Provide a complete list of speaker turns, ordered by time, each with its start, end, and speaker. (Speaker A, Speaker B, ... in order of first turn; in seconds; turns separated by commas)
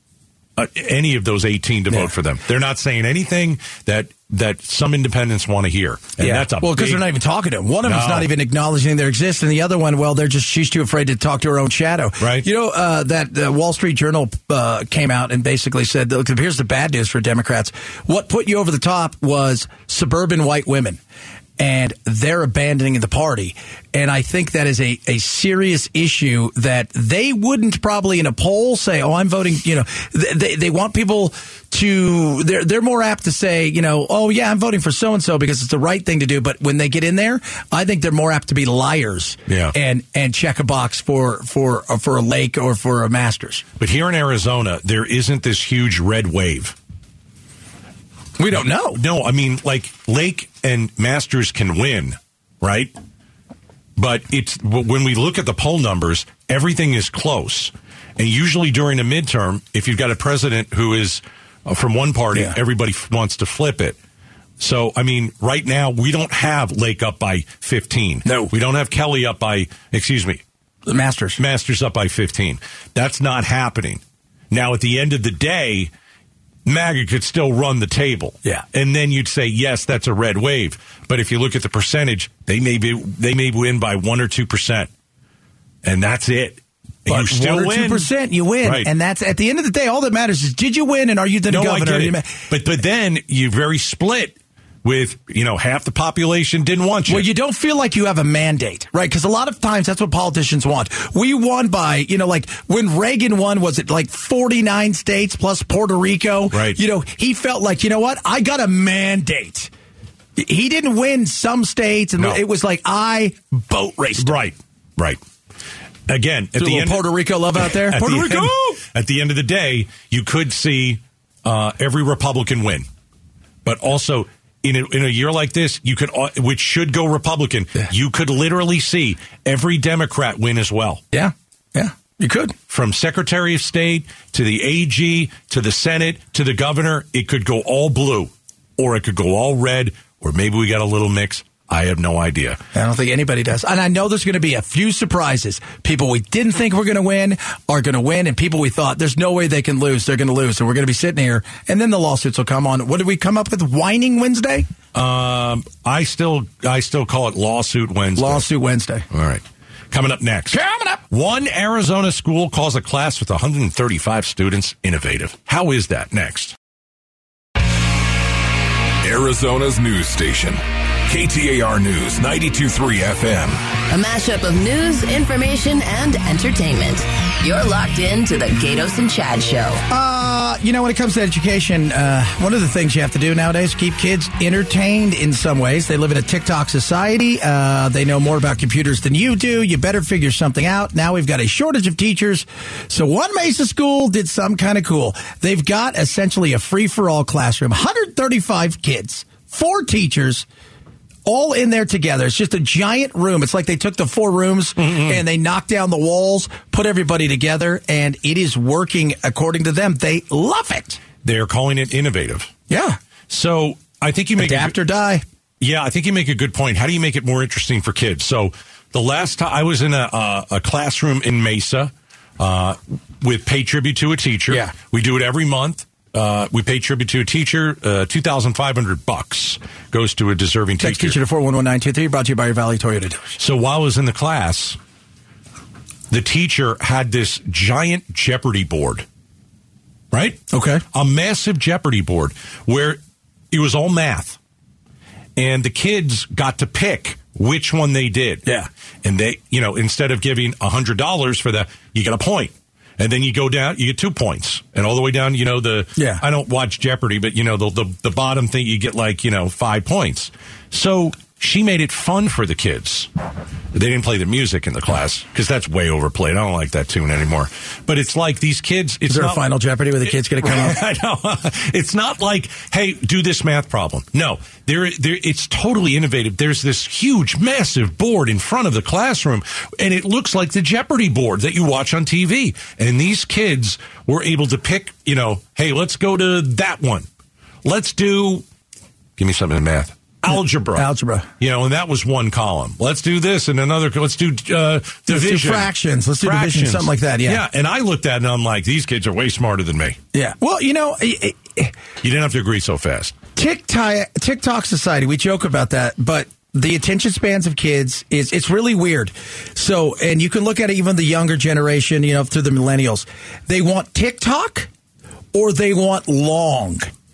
Speaker A: 0.6-7.1, Speaker B: 6.2-21.0, Speaker A: 7.8-8.3, Speaker A: 12.2-12.5, Speaker B: 21.6-43.6, Speaker A: 39.5-39.8, Speaker A: 43.8-46.8, Speaker B: 48.4-49.0, Speaker A: 48.9-52.9, Speaker A: 54.0-64.0, Speaker A: 64.6-70.4, Speaker B: 68.2-68.5, Speaker B: 70.9-71.4, Speaker A: 71.4-75.9, Speaker A: 76.7-84.9, Speaker A: 85.8-88.1, Speaker B: 87.1-92.3, Speaker A: 88.6-88.9, Speaker A: 91.5-97.3, Speaker B: 97.1-109.7, Speaker A: 106.5-106.8, Speaker B: 110.4-114.4, Speaker A: 114.2-115.2, Speaker A: 116.1-122.8, Speaker B: 116.6-118.8, Speaker A: 123.7-131.0, Speaker B: 131.1-132.6, Speaker A: 132.7-142.6, Speaker B: 142.7-154.7, Speaker A: 154.9-158.5, Speaker B: 158.2-159.1, Speaker A: 159.1-166.6, Speaker B: 160.5-161.0, Speaker C: 169.1-173.6, Speaker D: 173.9-179.8, Speaker B: 179.9-200.5, Speaker B: 201.3-211.0, Speaker A: 204.8-205.2, Speaker A: 211.2-212.5, Speaker B: 212.7-213.0, Speaker A: 213.3-214.8, Speaker B: 214.4-215.2, Speaker A: 215.6-231.2, Speaker B: 224.5-224.7, Speaker B: 230.8-233.3, Speaker A: 233.4-234.8, Speaker A: 236.1-239.1, Speaker A: 240.1-243.0, Speaker B: 240.5-240.8, Speaker A: 243.5-244.4, Speaker A: 245.4-248.5, Speaker A: 249.0-263.1, Speaker B: 256.0-256.2, Speaker A: 263.7-269.4, Speaker B: 269.1-270.8, Speaker A: 270.1-287.1, Speaker A: 287.6-288.4, Speaker A: 289.2-290.9, Speaker B: 290.7-291.3, Speaker A: 291.4-300.0, Speaker B: 295.1-297.4, Speaker B: 300.1-301.7, Speaker A: 302.0-303.1, Speaker B: 303.4-314.7, Speaker B: 315.3-316.9